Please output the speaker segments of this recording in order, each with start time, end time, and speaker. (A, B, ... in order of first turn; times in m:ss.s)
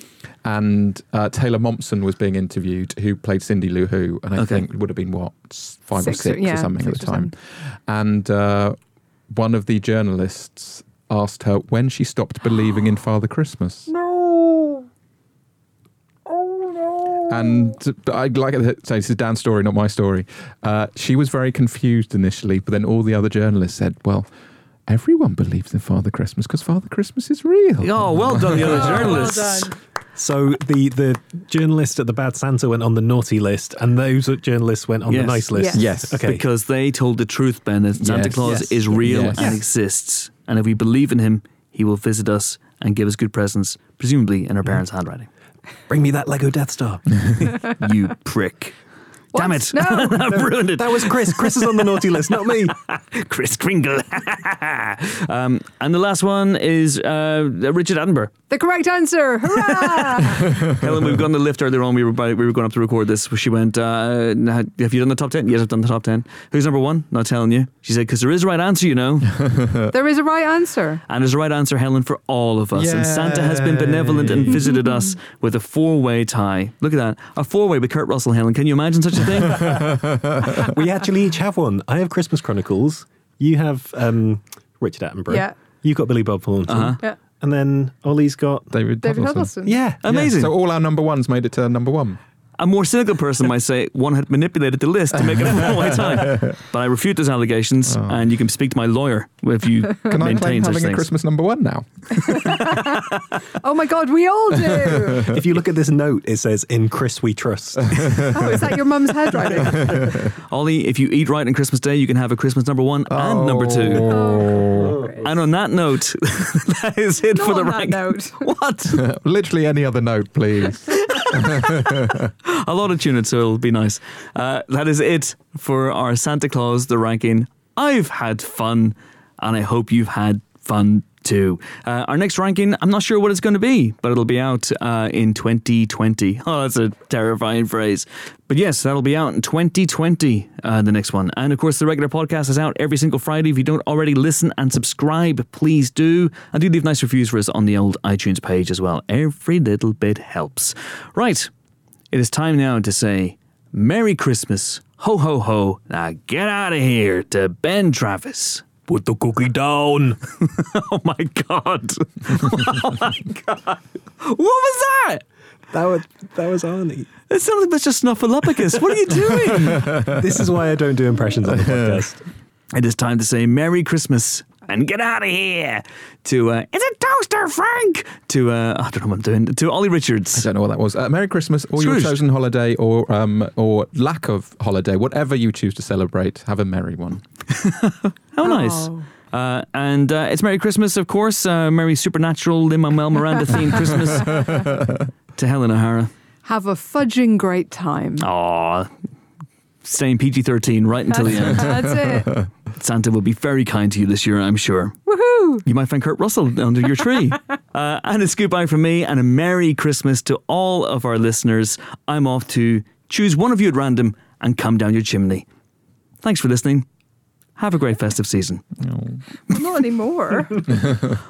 0:00.4-0:08.8 A
0:04.4-0:04.7 B
0:06.0-0:07.3 C
0:09.3-0:14.0 A
0:14.0-0:14.8 C
0:17.3-0:24.3 A
0:24.9-0:29.3 A
0:27.8-0:29.7 B
0:28.7-0:29.7 C
0:28.8-0:29.3 D
0:30.2-0:36.4 D
0:35.1-0:35.5 B
0:35.5-0:35.8 C
0:35.7-0:36.2 A
0:36.2-0:45.3 B
0:38.0-0:39.6 A
0:38.2-0:39.6 D
0:45.9-0:47.1 D
0:47.3-0:48.8 B
0:49.3-0:50.2 C
0:49.3-0:51.9 B
0:50.2-0:52.8 D
0:52.6-0:58.3 B
0:58.5-1:00.6 C
0:59.5-1:09.4 B
1:09.3-1:09.9 A
1:09.9-1:11.0 C
1:11.1-1:19.9 B
1:12.8-1:14.7 A
1:14.5-1:15.0 C
1:19.6-1:20.6 A
1:20.5-1:28.7 D
1:25.3-1:25.6 C
1:26.7-1:27.0 B
1:28.7-1:29.5 A
1:29.0-1:29.8 C
1:29.6-1:30.1 D
1:30.0-1:32.2 A
1:30.0-1:30.5 B
1:32.6-1:41.1 B
1:35.4-1:36.6 A
1:37.9-1:38.2 A
1:40.1-1:42.8 A
1:42.1-1:45.3 C
1:45.2-1:48.4 D
1:47.9-1:48.8 A
1:48.3-1:50.2 C
1:49.3-1:50.4 A
1:49.6-1:54.1 B
1:53.1-1:55.0 A
1:54.0-1:55.3 C
1:54.8-1:55.3 D
1:55.2-1:59.1 B
1:57.3-1:58.4 C
1:58.9-2:02.3 A
2:02.4-2:31.5 B
2:32.1-2:38.8 B
2:38.8-2:40.2 D
2:40.3-2:45.2 B
2:45.7-2:47.1 D
2:47.3-2:50.1 B
2:49.2-2:52.2 D
2:49.7-2:50.2 A
2:51.6-2:52.0 A
2:52.7-3:00.5 B
3:00.4-3:07.2 A
3:01.8-3:02.2 B
3:07.5-3:14.8 B
3:08.4-3:09.1 C
3:14.2-3:14.8 A
3:15.4-3:16.1 B
3:16.4-3:18.3 C
3:18.2-3:18.9 B
3:19.8-3:22.1 B
3:21.2-3:22.3 C
3:21.6-3:21.9 A
3:22.7-3:25.0 B
3:25.1-3:25.6 C
3:25.6-3:35.5 B
3:36.2-3:36.9 B
3:37.6-3:38.6 B
3:38.8-3:39.2 A
3:39.5-3:40.6 C
3:40.7-3:41.0 A